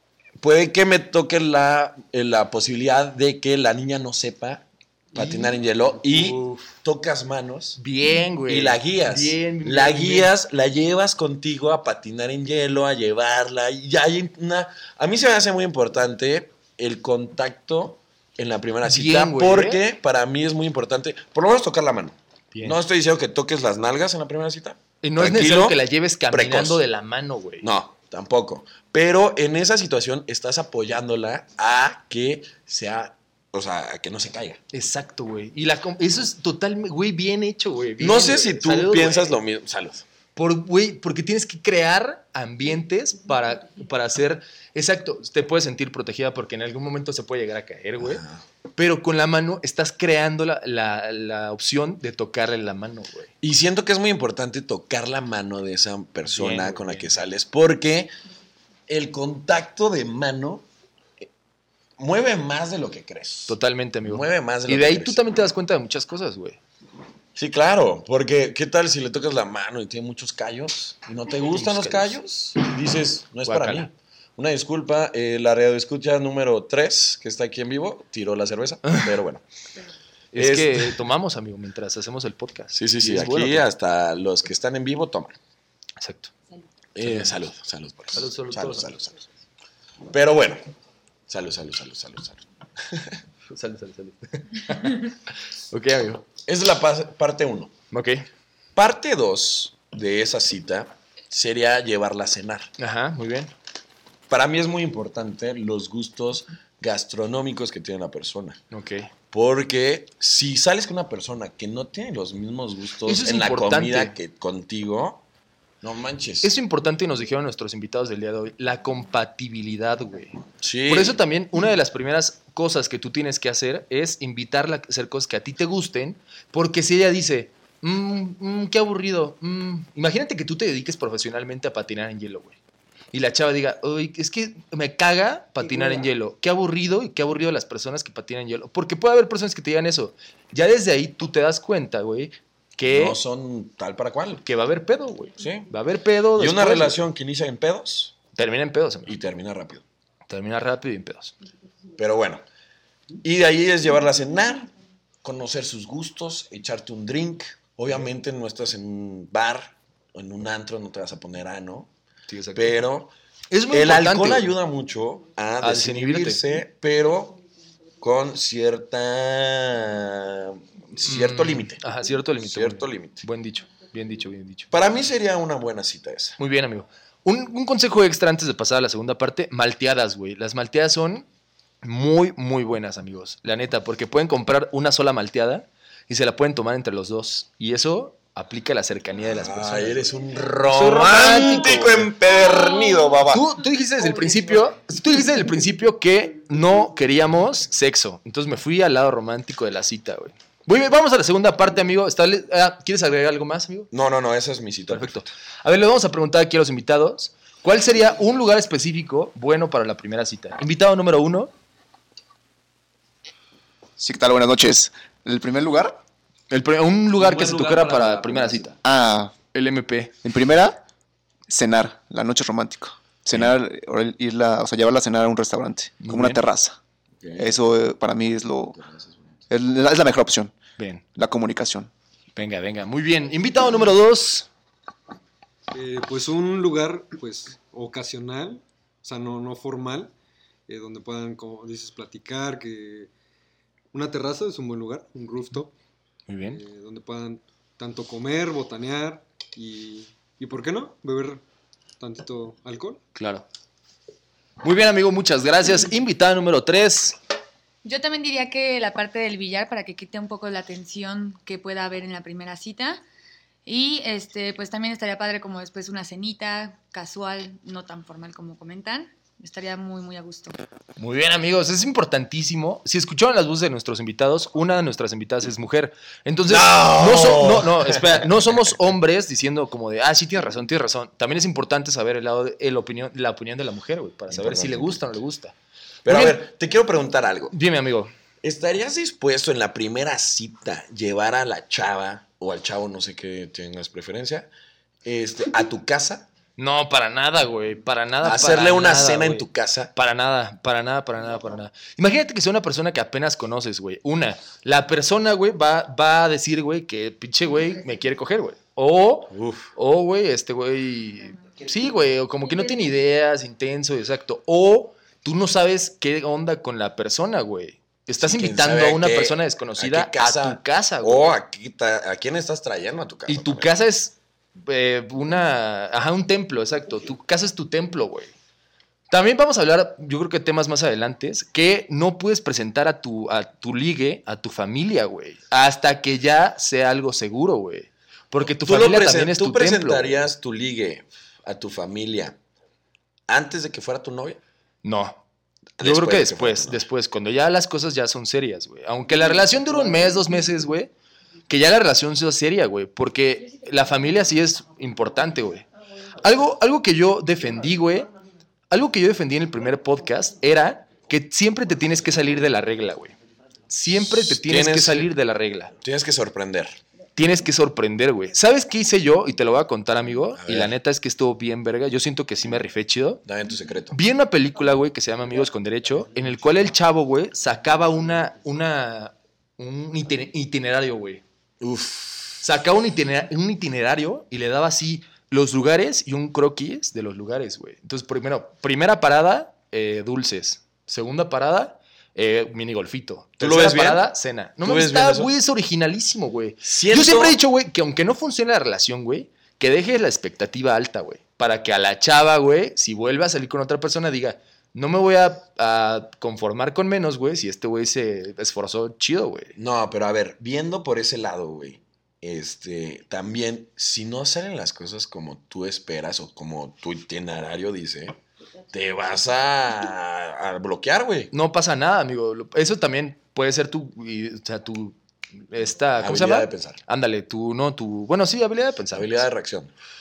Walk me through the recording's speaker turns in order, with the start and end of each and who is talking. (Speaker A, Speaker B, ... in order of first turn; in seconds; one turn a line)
Speaker A: 0.4-7.8
Speaker B: 5.1-5.5
Speaker B: 6.1-6.7
Speaker B: 7.8-10.3
Speaker A: 8.5-26.8
Speaker B: 18.8-19.8
Speaker B: 22.5-22.8
Speaker B: 25.0-27.7
Speaker A: 27.6-34.6
Speaker B: 34.7-39.4
Speaker A: 38.0-40.0
Speaker B: 40.4-48.2
Speaker A: 48.0-48.4
Speaker B: 48.8-53.3
Speaker A: 53.4-58.1
Speaker B: 56.3-57.2
Speaker A: 58.9-60.6
Speaker A: 62.0-65.2
Speaker B: 63.5-66.6
Speaker A: 67.3-79.4
Speaker B: 71.5-72.2
Speaker B: 73.4-73.9
Speaker B: 78.8-79.1
Speaker B: 80.3-83.7
Speaker A: 80.3-81.0
Speaker A: 82.7-85.3
Speaker B: 86.0-86.3
Speaker A: 86.9-89.2
Speaker B: 87.0-87.4
Speaker B: 88.1-88.9
Speaker A: 90.1-90.6
Speaker A: 91.3-93.2
Speaker B: 93.5-95.2
Speaker B: 95.7-96.2
Speaker A: 96.5-97.7
Speaker B: 97.9-98.3
Speaker A: 98.7-102.7
Speaker B: 102.8-103.5
Speaker A: 104.3-108.6
Speaker B: 108.7-109.1
Speaker A: 109.3-115.2
Speaker B: 113.0-114.1
Speaker A: 115.8-116.5
Speaker B: 116.4-132.6
Speaker A: 120.6-121.2
Speaker B: 133.1-143.2
Speaker A: 142.9-144.4
Speaker B: 144.4-147.0
Speaker A: 145.4-145.7
Speaker A: 146.3-148.2
Speaker B: 148.3-149.1
Speaker A: 149.1-149.8
Speaker B: 150.3-151.3
Speaker A: 152.0-152.4
Speaker A: 153.2-154.7
Speaker A: 155.2-161.9
Speaker B: 162.3-162.8
Speaker A: 162.5-163.1
Speaker B: 163.5-164.5
Speaker A: 163.7-167.4
Speaker B: 165.6-166.4
Speaker A: 168.0-171.8
Speaker B: 171.0-174.7
Speaker A: 172.4-173.2
Speaker A: 174.7-176.4
Speaker B: 176.4-181.2
Speaker B: 181.8-192.1
Speaker A: 189.2-193.5
Speaker B: 193.3-203.9
Speaker A: 203.9-205.2
Speaker B: 204.9-211.5
Speaker C: 214.0-216.0
Speaker B: 216.5-218.8
Speaker A: 217.2-218.7
Speaker C: 218.8-219.3
Speaker B: 219.5-220.1
Speaker C: 220.2-220.8
Speaker C: 221.5-226.8
Speaker B: 226.0-226.4
Speaker A: 227.2-227.5
Speaker C: 227.4-228.8
Speaker A: 228.8-229.1
Speaker C: 229.5-230.6
Speaker B: 230.8-231.0
Speaker C: 231.1-231.9
Speaker B: 232.3-234.5
Speaker D: 235.7-240.1
Speaker D: 240.7-243.1
Speaker D: 243.9-245.7
Speaker B: 246.3-246.6
Speaker D: 246.4-251.4
Speaker D: 252.0-253.0
Speaker B: 253.1-253.4
Speaker B: 254.6-257.2
Speaker E: 257.8-263.0
Speaker E: 263.6-270.6
Speaker B: 271.0-285.5
Speaker A: 276.5-278.3
Speaker A: 284.3-285.1
Speaker A: 286.0-287.5
Speaker B: 286.1-286.4
Speaker B: 287.5-288.1
Speaker A: 288.4-294.5
Speaker A: 295.0-296.3
Speaker B: 296.6-321.3
Speaker A: 298.2-299.9
Speaker A: 309.3-309.7
Speaker A: 318.2-323.7
Speaker B: 323.3-328.3
Speaker B: 329.1-340.1
Speaker A: 338.4-342.4
Speaker A: 343.3-344.4
Speaker B: 344.8-345.2
Speaker A: 345.8-346.9
Speaker B: 345.8-350.9
Speaker B: 351.5-358.1
Speaker B: 358.7-363.1
Speaker B: 363.7-365.7
Speaker A: 364.0-365.1
Speaker A: 365.8-366.8
Speaker B: 367.1-373.2
Speaker A: 370.4-370.7
Speaker A: 373.2-374.0
Speaker B: 373.9-381.2
Speaker A: 381.6-382.4
Speaker B: 382.4-409.5
Speaker A: 393.4-394.1
Speaker A: 394.6-395.3
Speaker A: 396.6-397.4
Speaker A: 409.6-418.2
Speaker A: 418.7-421.3
Speaker B: 421.3-425.0
Speaker B: 425.5-429.2
Speaker A: 426.0-426.8
Speaker A: 428.9-429.7